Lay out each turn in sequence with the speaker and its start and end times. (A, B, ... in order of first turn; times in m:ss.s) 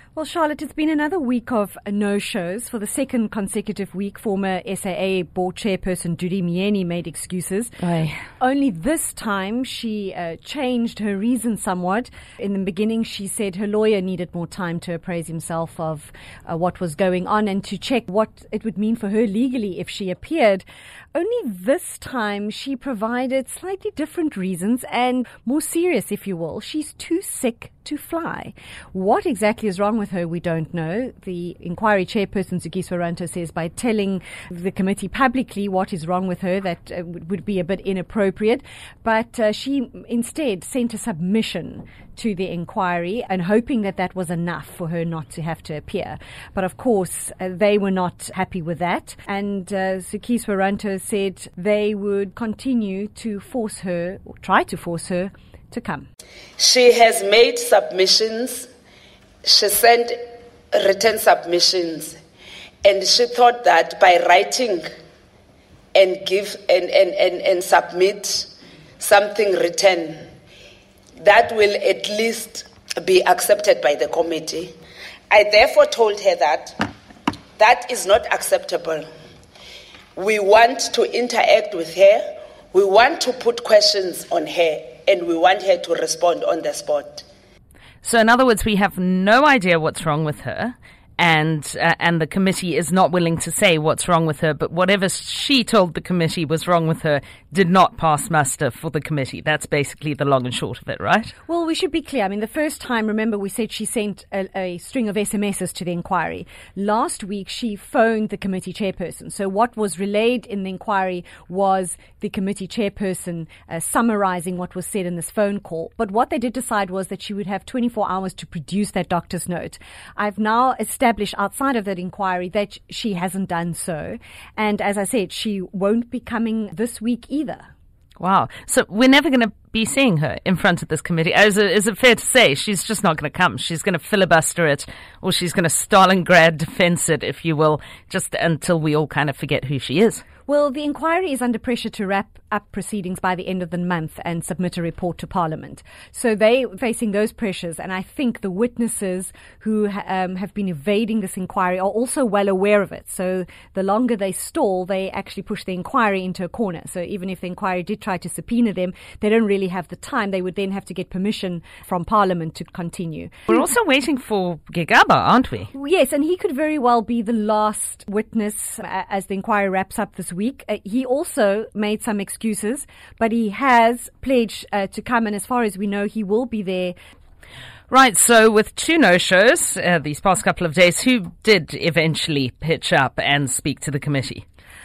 0:00.1-0:07.7 A
0:07.8-0:08.2 B
0:08.4-0:56.0 A
0:56.6-0:58.7 C
0:59.4-1:00.2 C
1:00.7-1:02.2 C
1:02.8-1:04.8 C
1:05.9-1:10.2 C
1:11.2-1:14.7 C
1:15.3-1:16.9 C
1:17.6-1:19.0 C
1:20.1-1:27.2 C
1:28.0-1:41.3 B
1:41.5-2:07.7 A
2:08.2-2:20.2 B
2:20.5-2:43.6 A
2:43.5-2:45.7 B
2:45.7-2:57.0 A
2:57.9-3:04.4 B